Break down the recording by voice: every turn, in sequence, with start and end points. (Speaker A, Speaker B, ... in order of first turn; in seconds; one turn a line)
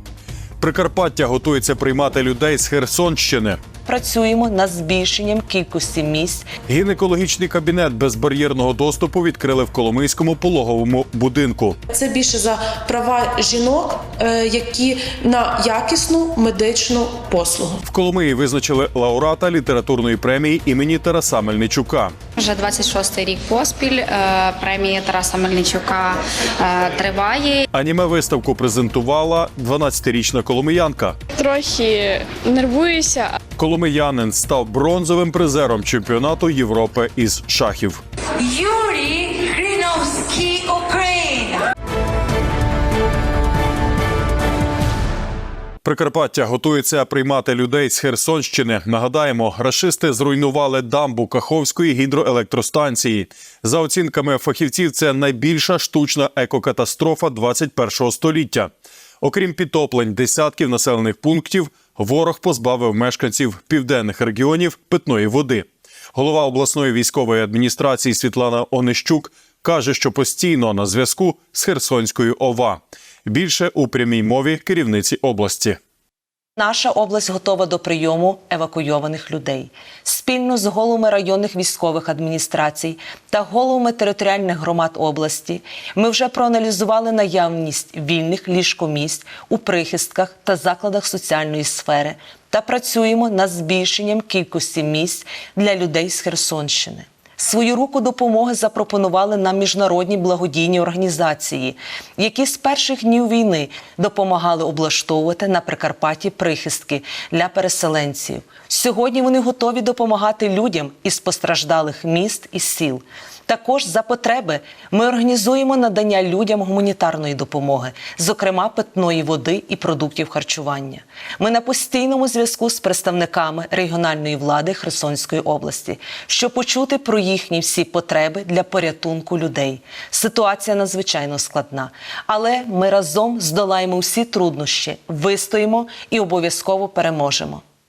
Speaker A: 0.6-3.6
Speaker B: 3.9-6.5
Speaker A: 6.7-11.8
Speaker C: 11.9-17.8
Speaker A: 17.9-22.1
Speaker D: 22.4-27.6
Speaker A: 27.7-31.2
Speaker E: 31.4-33.4
Speaker A: 33.6-38.0
Speaker F: 38.4-41.6
Speaker A: 45.8-58.7
Speaker A: 59.2-75.8
Speaker B: 76.6-137.6